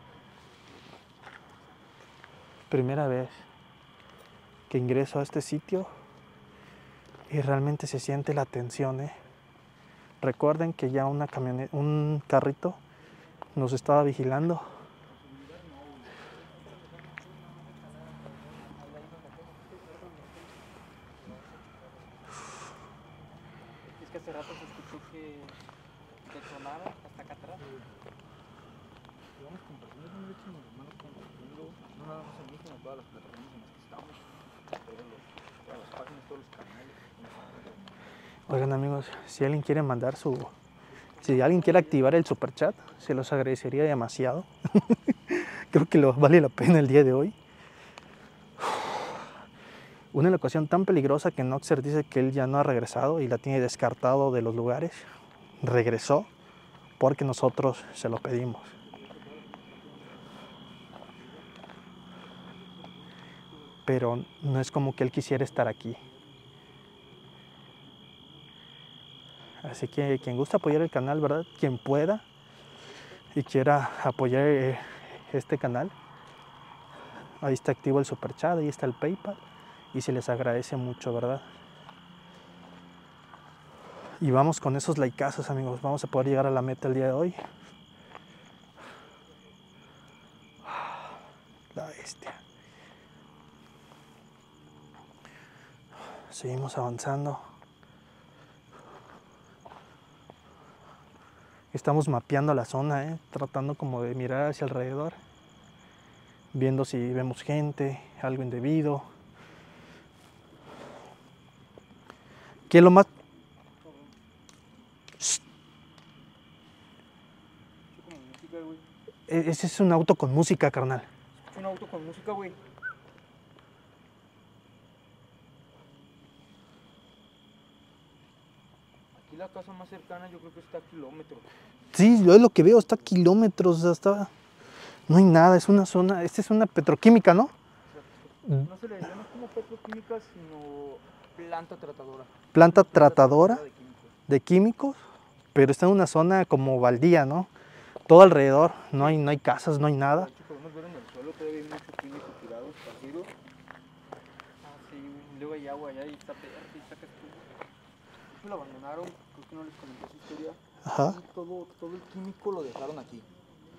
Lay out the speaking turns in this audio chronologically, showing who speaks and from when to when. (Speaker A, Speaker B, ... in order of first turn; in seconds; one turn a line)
Speaker A: 2.7-3.4
Speaker A: 4.7-5.9
Speaker A: 7.3-9.2
Speaker A: 10.2-12.8
Speaker A: 13.6-14.7
Speaker B: 15.1-16.1
Speaker C: 18.8-20.3
Speaker C: 24.0-25.6
Speaker C: 26.3-27.6
Speaker B: 27.6-27.9
Speaker B: 29.3-37.8
Speaker A: 38.5-40.5
Speaker A: 41.2-47.4
Speaker A: 48.6-49.2
Speaker A: 50.1-55.1
Speaker A: 55.6-56.3
Speaker A: 57.0-58.7
Speaker A: 63.9-66.0
Speaker A: 69.6-72.2
Speaker A: 73.3-75.9
Speaker A: 77.4-79.4
Speaker A: 79.9-81.5
Speaker A: 84.2-87.4
Speaker A: 90.7-91.2
Speaker A: 91.7-92.4
Speaker A: 96.3-97.4
Speaker A: 101.7-105.2
Speaker A: 106.5-109.1
Speaker A: 112.7-113.1
Speaker B: 117.9-118.8
Speaker A: 119.3-121.1
Speaker B: 121.5-122.6
Speaker B: 129.1-131.5
Speaker A: 131.9-134.3
Speaker A: 135.1-137.5
Speaker B: 137.9-144.2
Speaker A: 142.5-143.6
Speaker A: 144.3-145.0
Speaker A: 145.6-147.5
Speaker A: 148.1-150.3
Speaker B: 149.0-149.3
Speaker B: 150.0-153.3
Speaker C: 154.6-157.4
Speaker B: 158.3-163.3
Speaker A: 160.8-161.2